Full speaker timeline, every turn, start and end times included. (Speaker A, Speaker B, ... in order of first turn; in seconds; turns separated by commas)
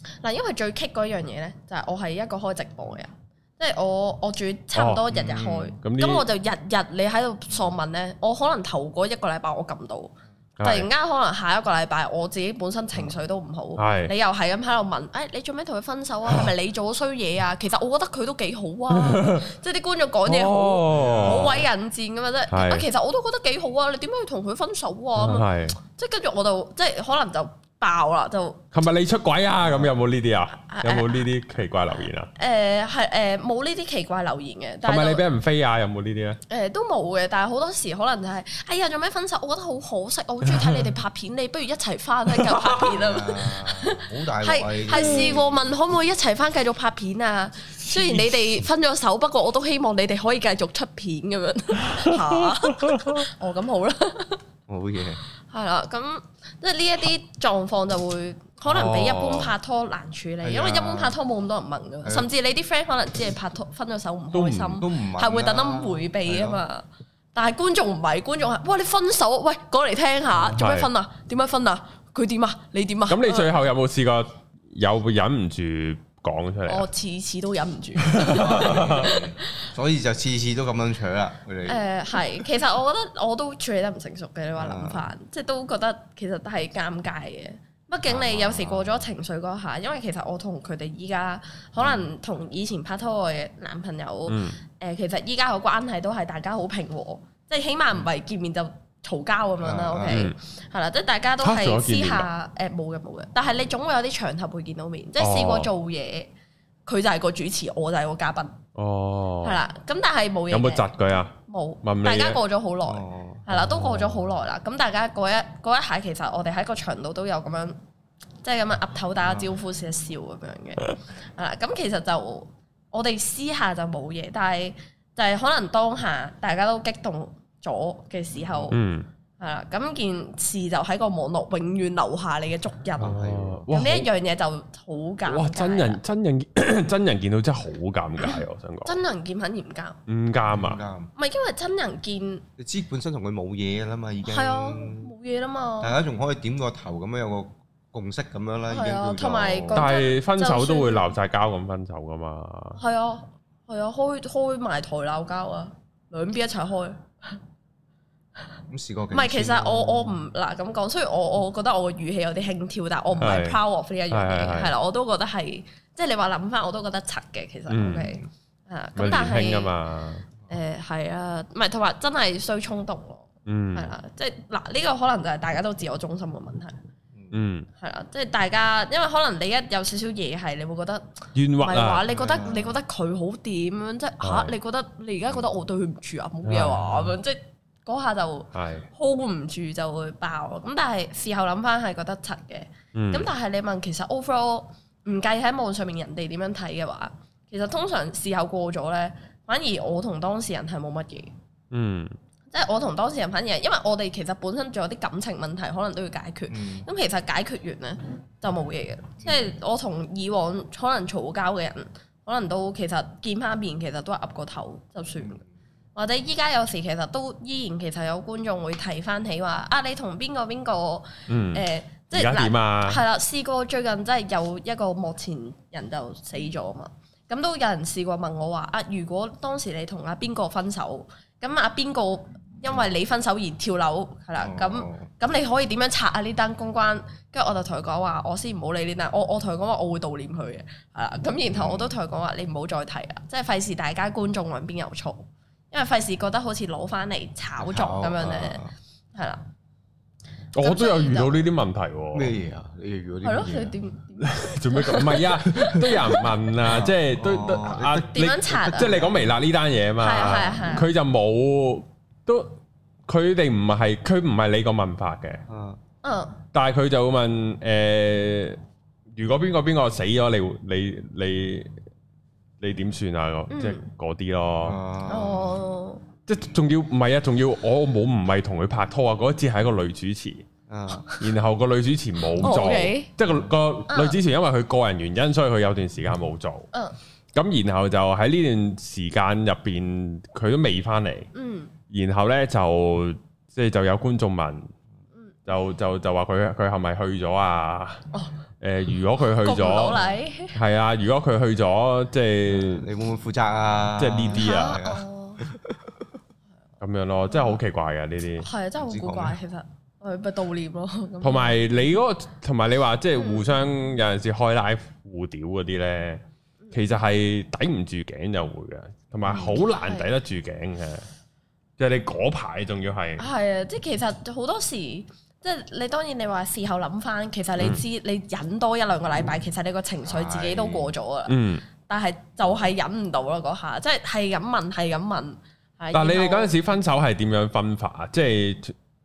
Speaker A: 0.2-28.6, Speaker B: 4.7-5.0, Speaker C: 5.1-5.7, Speaker B: 5.8-6.2, Speaker B: 10.6-10.9, Speaker B: 13.8-14.1, Speaker B: 18.9-19.5, Speaker B: 20.2-21.6, Speaker C: 20.9-21.7, Speaker B: 22.5-22.8, Speaker B: 25.1-25.8, Speaker B: 28.7-32.3, Speaker C: 29.6-29.9, Speaker A: 30.5-31.3, Speaker A: 32.4-35.2, Speaker B: 34.8-36.4, Speaker A: 36.5-54.4, Speaker B: 40.5-40.8, Speaker B: 42.4-42.6, Speaker C: 42.8-45.8, Speaker B: 45.0-45.2, Speaker B: 47.8-48.3, Speaker B: 51.8-53.2, Speaker C: 54.7-55.2, Speaker A: 55.5-73.5, Speaker B: 58.6-59.5, Speaker C: 60.4-61.2, Speaker C: 62.0-62.3, Speaker B: 64.3-64.8, Speaker C: 64.8-66.6, Speaker B: 70.4-70.9, Speaker B: 73.1-76.9, Speaker A: 76.7-79.7, Speaker B: 78.0-79.1, Speaker C: 78.2-81.8, Speaker A: 81.7-106.3, Speaker C: 84.6-85.1, Speaker C: 88.0-89.1, Speaker C: 91.8-92.1, Speaker B: 94.3-94.6, Speaker C: 99.6-100.3, Speaker B: 100.1-100.3, Speaker B: 101.4-102.3, Speaker B: 105.2-105.7, Speaker A: 106.8-108.6, Speaker B: 108.8-109.6, Speaker A: 109.4-110.9, Speaker B: 110.5-112.4, Speaker A: 111.5-117.8, Speaker C: 112.8-113.6, Speaker B: 113.5-114.0, Speaker A: 118.4-128.8, Speaker C: 119.2-119.5, Speaker B: 128.7-129.1, Speaker A: 129.4-133.2, Speaker C: 133.0-133.7, Speaker B: 133.0-134.1, Speaker A: 133.7-136.0, Speaker B: 135.2-139.0, Speaker A: 138.2-140.0, Speaker B: 140.1-140.8, Speaker C: 140.5-141.1, Speaker A: 141.2-142.4, Speaker C: 142.6-145.1, Speaker A: 144.2-146.0, Speaker C: 145.8-149.9, Speaker A: 148.7-151.1, Speaker B: 149.7-152.8, Speaker A: 152.8-157.4, Speaker C: 158.7-160.2, Speaker A: 159.1-169.7, Speaker B: 163.2-163.6, Speaker B: 164.1-164.7, Speaker B: 167.7-168.1, Speaker B: 168.9-170.3, Speaker A: 170.5-176.8, Speaker B: 173.4-173.9, Speaker B: 177.3-177.7, Speaker A: 177.8-201.3, Speaker B: 181.3-182.0, Speaker C: 182.1-182.8, Speaker B: 184.2-184.5, Speaker B: 186.4-187.2, Speaker B: 188.5-188.9, Speaker B: 192.9-193.3, Speaker B: 201.7-202.2, Speaker A: 202.5-215.4, Speaker C: 206.5-206.8, Speaker C: 209.2-209.6, Speaker A: 215.9-248.6, Speaker B: 221.3-223.0, Speaker C: 234.4-235.1, Speaker C: 241.5-241.9, Speaker C: 247.6-248.7, Speaker A: 249.1-249.4, Speaker B: 250.5-252.3, Speaker A: 250.6-251.4, Speaker C: 252.1-253.8, Speaker A: 253.2-255.9, Speaker B: 254.2-265.4, Speaker C: 256.6-259.4, Speaker A: 258.1-259.0, Speaker A: 260.0-260.9, Speaker C: 265.5-265.8, Speaker A: 266.0-266.4, Speaker B: 266.5-268.6, Speaker B: 269.1-271.7, Speaker B: 272.6-274.8, Speaker A: 273.5-273.8, Speaker C: 274.6-275.6, Speaker A: 275.1-276.0, Speaker B: 276.3-280.4, Speaker C: 280.7-281.1, Speaker A: 280.9-281.2, Speaker B: 281.2-286.7, Speaker A: 282.4-283.1, Speaker A: 283.9-284.2, Speaker B: 287.3-291.3, Speaker A: 291.3-291.7, Speaker B: 291.9-294.7, Speaker A: 295.1-295.4, Speaker B: 295.5-298.0, Speaker B: 298.6-300.0, Speaker A: 299.4-300.6, Speaker B: 300.5-302.9, Speaker C: 302.5-305.8, Speaker B: 304.0-304.8, Speaker A: 304.3-305.4, Speaker B: 306.8-308.4, Speaker A: 307.3-307.6, Speaker A: 308.4-311.7, Speaker C: 308.8-309.4, Speaker B: 311.2-321.0, Speaker A: 313.1-313.5, Speaker A: 319.3-320.1, Speaker B: 321.8-323.2, Speaker A: 323.2-336.5, Speaker C: 330.0-330.9, Speaker B: 331.3-331.6, Speaker B: 335.9-338.7